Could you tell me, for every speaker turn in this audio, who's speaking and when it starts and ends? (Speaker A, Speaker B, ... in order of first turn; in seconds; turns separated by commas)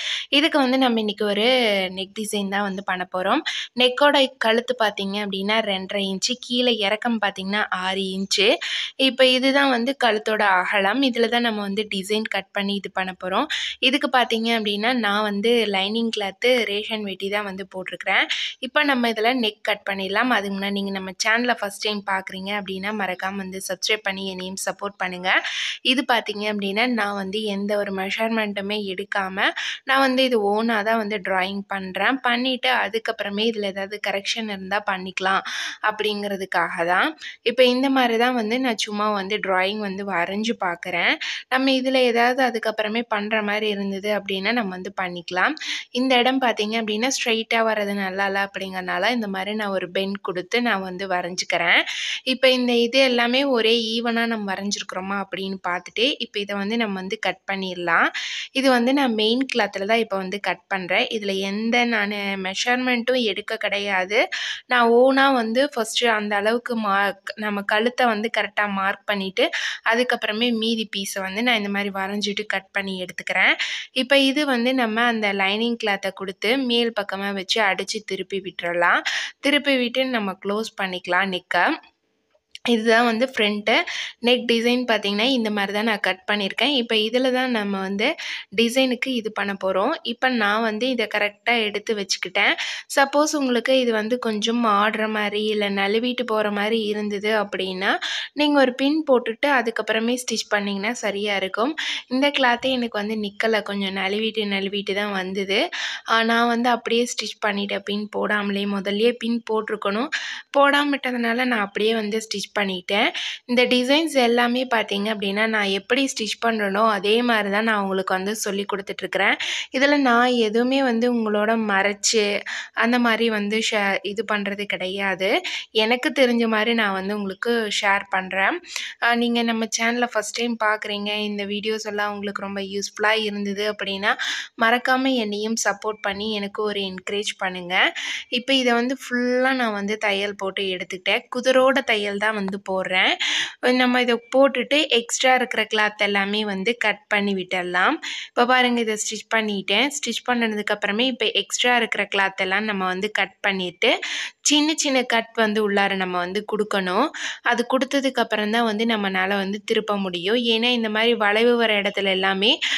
Speaker A: 0.3-8.5, Speaker A: 9.0-25.3, Speaker A: 25.9-51.8, Speaker A: 52.3-58.0, Speaker A: 58.6-64.2, Speaker A: 64.7-81.6, Speaker A: 82.7-83.8, Speaker A: 84.3-105.6, Speaker A: 106.1-122.2, Speaker A: 122.8-128.5, Speaker A: 129.1-137.8, Speaker A: 138.3-143.1, Speaker A: 143.7-153.9, Speaker A: 154.5-162.5